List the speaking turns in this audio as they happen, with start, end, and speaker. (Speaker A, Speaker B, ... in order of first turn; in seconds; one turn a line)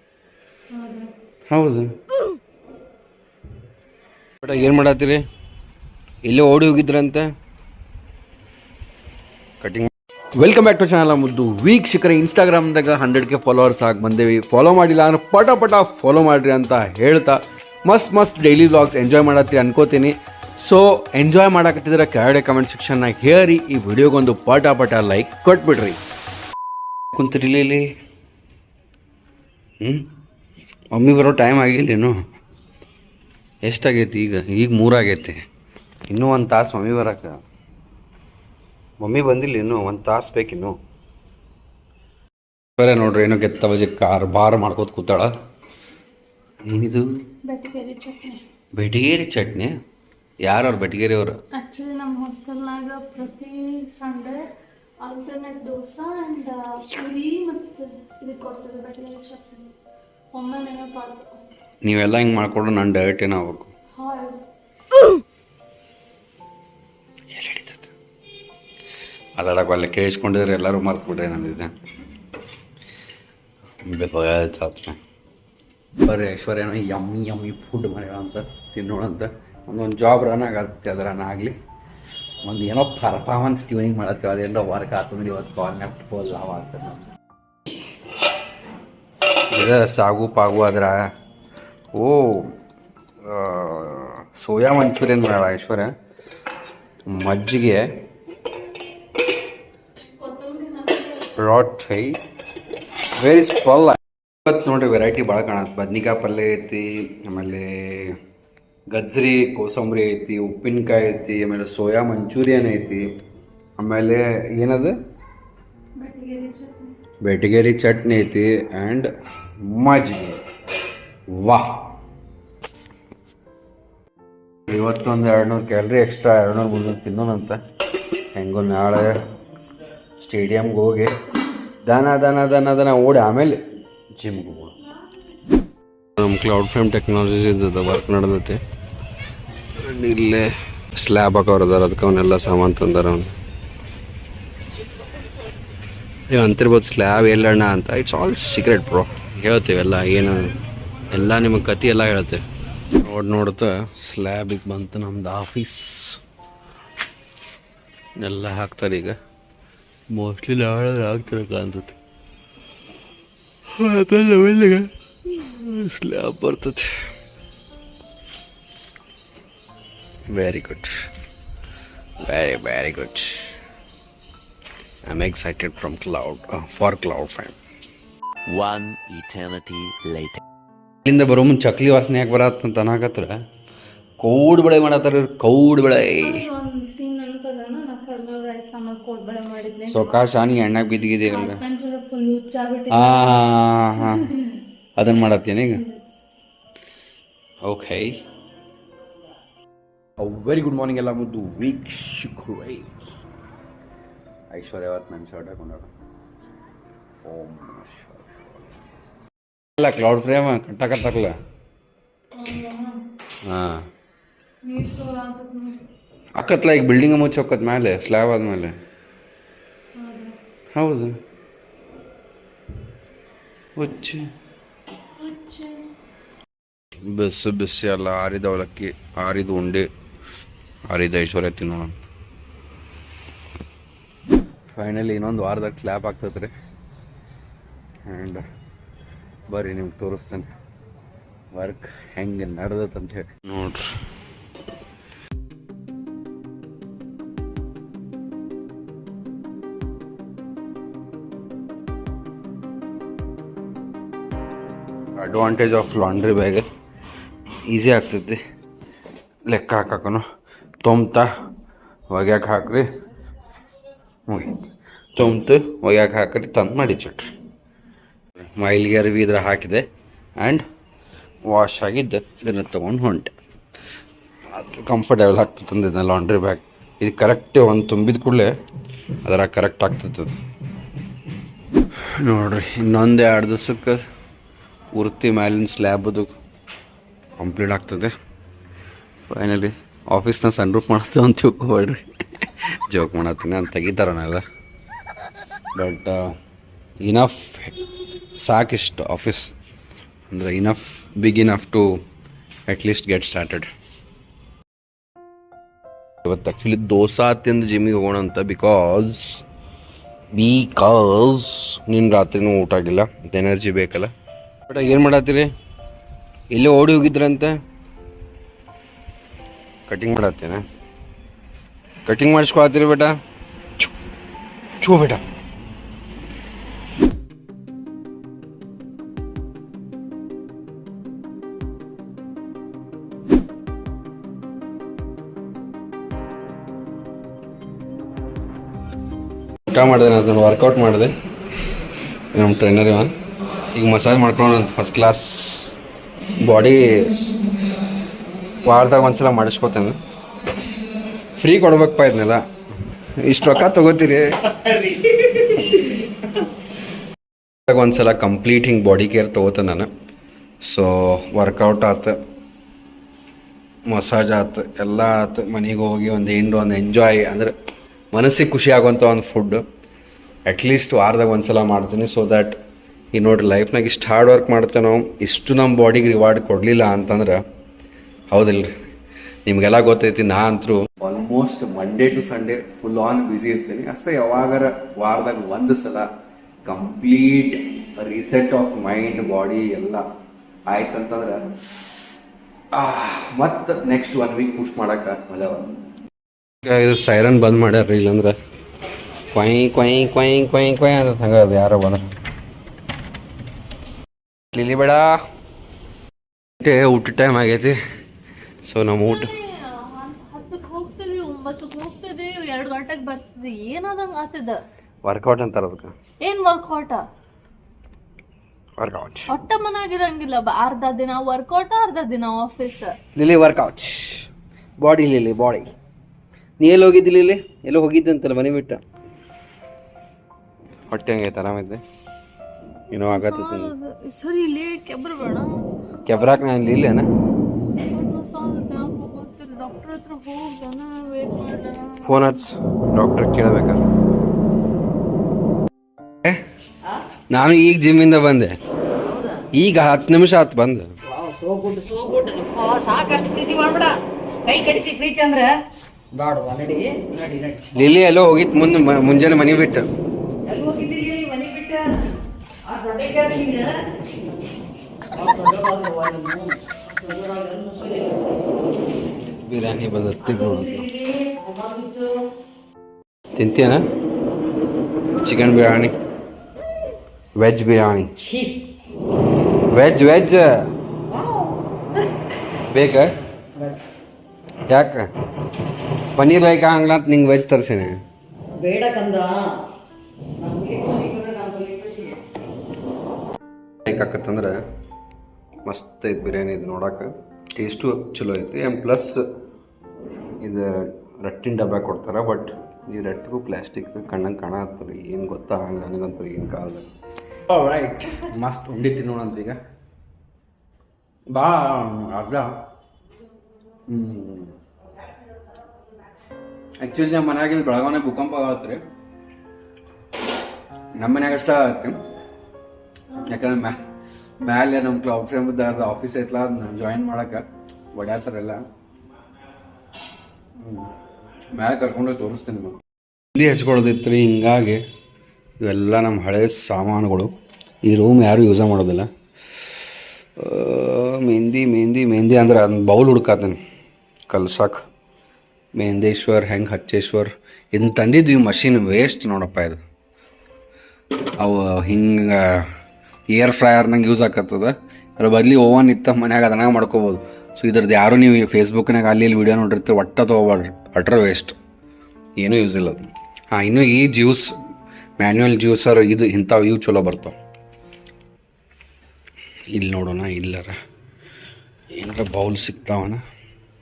Speaker A: 0.7-1.1
Speaker B: 1.5-1.9
Speaker B: 4.4-5.2
Speaker B: 6.3-7.3
Speaker B: 9.6-26.0
Speaker B: 27.1-27.9
Speaker B: 29.8-30.1
Speaker B: 30.9-32.2
Speaker B: 33.6-35.4
Speaker B: 36.1-37.4
Speaker B: 39.0-40.8
Speaker B: 42.8-45.3
Speaker B: 46.7-47.1
Speaker A: 47.5-48.4
Speaker B: 48.7-49.7
Speaker B: 50.4-51.4
Speaker A: 51.6-54.4
Speaker A: 55.0-59.7
Speaker A: 60.3-61.4
Speaker B: 61.8-63.7
Speaker A: 64.0-64.4
Speaker B: 67.3-67.9
Speaker B: 69.4-71.7
Speaker B: 73.8-75.0
Speaker B: 76.0-81.5
Speaker B: 82.4-87.1
Speaker B: 89.5-91.0
Speaker B: 91.9-92.6
Speaker B: 93.2-95.9
Speaker B: 97.1-98.0
Speaker A: 100.2-101.3
Speaker B: 101.3-102.2
Speaker B: 103.2-108.2
Speaker B: 108.9-113.1
Speaker B: 113.8-115.0
Speaker A: 116.0-116.9
Speaker B: 117.2-119.1
Speaker B: 119.6-120.4
Speaker B: 121.3-121.9
Speaker B: 124.7-127.6
Speaker B: 128.3-129.2
Speaker B: 130.2-131.1
Speaker B: 131.8-133.6
Speaker B: 134.2-134.8
Speaker B: 136.2-138.6
Speaker B: 139.8-143.3
Speaker B: 146.3-150.5
Speaker B: 151.1-152.4
Speaker B: 153.0-156.2
Speaker B: 158.2-159.2
Speaker B: 160.1-162.0
Speaker B: 163.7-166.9
Speaker B: 170.3-171.1
Speaker B: 172.2-173.6
Speaker B: 175.1-177.6
Speaker C: 178.5-180.4
Speaker B: 181.1-183.3
Speaker B: 184.2-186.4
Speaker A: 186.2-190.2
Speaker B: 189.9-191.6
Speaker A: 191.2-193.4
Speaker B: 192.9-194.3
Speaker A: 194.0-194.4
Speaker B: 195.0-195.8
Speaker B: 197.6-198.1
Speaker B: 200.2-203.0
Speaker B: 204.5-205.9
Speaker B: 207.2-208.6
Speaker B: 209.8-211.3
Speaker A: 212.3-213.0
Speaker B: 213.4-213.8
Speaker A: 214.6-215.8
Speaker B: 216.3-218.7
Speaker A: 220.0-220.3
Speaker B: 220.7-221.2
Speaker B: 223.8-224.3
Speaker A: 225.2-225.9
Speaker B: 227.1-229.9
Speaker B: 230.9-232.0
Speaker B: 234.7-236.5
Speaker B: 238.1-238.4
Speaker B: 239.5-240.5
Speaker B: 241.5-243.9
Speaker B: 255.2-256.7
Speaker B: 257.7-258.4
Speaker B: 259.5-260.2
Speaker B: 260.8-261.3
Speaker B: 262.1-262.9
Speaker B: 264.3-267.3
Speaker B: 268.6-269.9
Speaker B: 270.4-270.6
Speaker B: 271.5-273.3
Speaker B: 274.5-278.5
Speaker B: 279.2-280.4
Speaker B: 282.1-284.0
Speaker B: 284.9-286.3
Speaker B: 287.4-288.1
Speaker B: 289.3-294.4
Speaker B: 295.7-296.3
Speaker B: 297.0-297.8
Speaker B: 298.4-299.5
Speaker B: 300.3-301.9
Speaker B: 302.7-303.7
Speaker B: 306.2-309.4
Speaker B: 310.3-314.1
Speaker B: 314.7-315.5
Speaker B: 316.5-317.5
Speaker B: 319.9-320.6
Speaker B: 322.1-323.1
Speaker B: 324.8-325.2
Speaker B: 339.7-341.1
Speaker B: 342.3-343.1
Speaker B: 343.7-345.8
Speaker B: 346.4-347.3
Speaker B: 348.7-350.0
Speaker B: 351.4-352.4
Speaker B: 353.2-355.9
Speaker B: 357.7-359.9
Speaker B: 360.6-362.1
Speaker B: 363.9-367.5
Speaker B: 368.1-369.6
Speaker B: 370.5-372.6
Speaker B: 373.1-377.4
Speaker B: 378.3-378.7
Speaker B: 379.5-386.1
Speaker B: 386.6-390.0
Speaker B: 390.7-391.6
Speaker B: 392.7-395.7
Speaker B: 396.6-398.3
Speaker B: 399.3-402.1
Speaker B: 404.5-405.1
Speaker B: 406.6-407.8
Speaker B: 408.6-409.3
Speaker A: 409.1-414.6
Speaker B: 415.0-415.9
Speaker A: 416.2-417.1
Speaker B: 418.8-419.3
Speaker A: 419.3-423.0
Speaker B: 423.1-424.3
Speaker B: 424.8-425.7
Speaker B: 426.6-428.8
Speaker B: 430.9-431.8
Speaker B: 432.9-433.7
Speaker A: 433.0-435.6
Speaker B: 436.1-437.1
Speaker A: 437.9-442.4
Speaker B: 442.0-443.9
Speaker B: 447.3-448.5
Speaker D: 449.0-449.5
Speaker B: 449.6-450.9
Speaker D: 451.1-455.6
Speaker D: 456.1-457.9
Speaker B: 457.8-459.9
Speaker D: 460.5-462.1
Speaker D: 462.6-463.8
Speaker D: 465.1-468.6
Speaker B: 469.3-470.9
Speaker D: 470.2-472.1
Speaker B: 473.4-473.8
Speaker B: 475.2-475.9
Speaker B: 477.4-478.1
Speaker D: 478.2-478.6
Speaker B: 479.7-480.5
Speaker D: 481.1-481.6
Speaker B: 482.6-483.1
Speaker B: 484.7-485.1
Speaker B: 486.1-488.0
Speaker D: 488.6-489.4
Speaker D: 490.4-492.2
Speaker B: 493.9-494.6
Speaker B: 495.6-499.2
Speaker B: 500.4-506.9
Speaker B: 507.5-509.6
Speaker B: 511.3-512.5
Speaker B: 513.9-514.5
Speaker B: 516.8-518.8
Speaker B: 521.0-522.0
Speaker B: 523.2-523.8
Speaker B: 524.4-528.6
Speaker B: 530.6-530.9
Speaker B: 531.5-532.8
Speaker B: 533.3-534.8
Speaker B: 535.6-537.3
Speaker B: 537.9-539.1
Speaker B: 540.4-543.6
Speaker B: 544.3-544.8
Speaker B: 545.8-549.8
Speaker B: 551.4-552.7
Speaker B: 553.3-561.6
Speaker B: 562.4-564.5
Speaker B: 565.2-567.4
Speaker B: 569.7-570.8
Speaker B: 571.9-573.2